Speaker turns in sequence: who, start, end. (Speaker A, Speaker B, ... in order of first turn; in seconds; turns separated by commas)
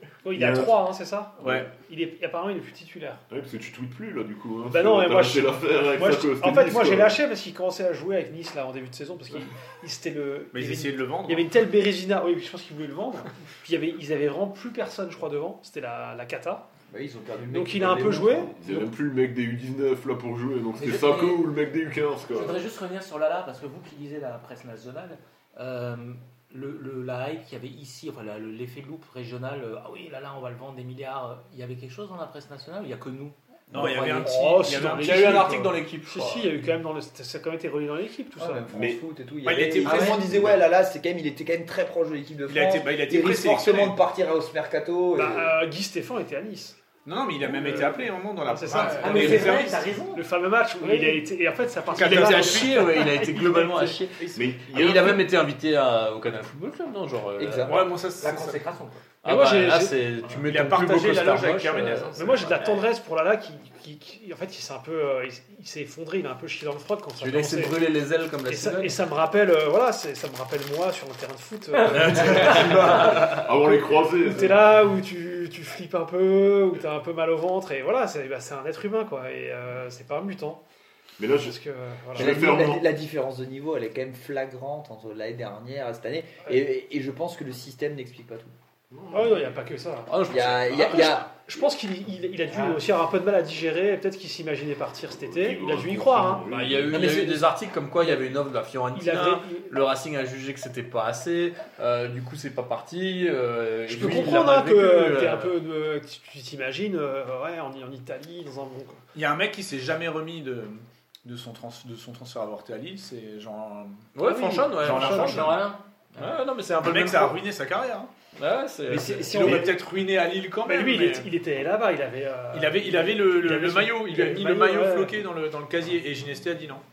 Speaker A: 0.2-3.2, Speaker B: 0.3-0.8, Speaker B: 1.4-1.7, Speaker C: 1.4-1.7, Speaker B: 3.3-7.2, Speaker A: 4.7-16.6, Speaker C: 10.5-11.5, Speaker D: 16.9-18.8, Speaker A: 17.5-18.5, Speaker B: 18.6-22.6, Speaker E: 20.8-21.5, Speaker E: 22.3-34.9, Speaker C: 33.7-35.8, Speaker A: 34.2-38.6, Speaker F: 34.8-36.6, Speaker D: 38.4-45.5, Speaker B: 38.7-39.0, Speaker C: 39.5-40.3, Speaker E: 39.8-40.2, Speaker B: 40.2-40.6, Speaker C: 42.5-44.0, Speaker A: 45.1-46.8, Speaker C: 47.0-49.8, Speaker A: 47.5-54.0, Speaker F: 48.7-49.5, Speaker E: 48.9-51.3, Speaker C: 51.9-53.0, Speaker F: 52.0-57.9, Speaker C: 54.2-54.5, Speaker B: 54.3-55.3, Speaker D: 57.4-57.8, Speaker C: 57.6-58.6, Speaker E: 58.2-59.1, Speaker A: 59.2-60.0, Speaker F: 59.2-62.4, Speaker C: 60.4-62.6, Speaker A: 62.1-67.9, Speaker F: 67.2-69.0, Speaker A: 68.5-80.6, Speaker E: 71.7-73.3, Speaker F: 71.9-73.5, Speaker B: 72.8-74.8, Speaker B: 81.2-81.6, Speaker A: 81.3-82.5, Speaker B: 82.1-82.9, Speaker D: 82.2-88.5, Speaker B: 88.9-89.5, Speaker A: 89.1-90.2, Speaker F: 90.1-91.2, Speaker D: 90.3-91.3, Speaker A: 90.9-96.5, Speaker E: 92.5-92.8, Speaker B: 95.1-97.2, Speaker F: 96.5-105.5, Speaker D: 96.9-97.4, Speaker A: 98.9-99.7, Speaker A: 103.9-109.0, Speaker C: 109.1-114.2, Speaker F: 114.2-115.6, Speaker E: 114.4-116.4, Speaker C: 114.7-115.6, Speaker F: 116.2-117.4, Speaker C: 116.7-118.1, Speaker F: 118.4-119.7, Speaker D: 118.9-119.8, Speaker C: 119.3-121.3, Speaker A: 120.6-125.1, Speaker C: 122.5-126.8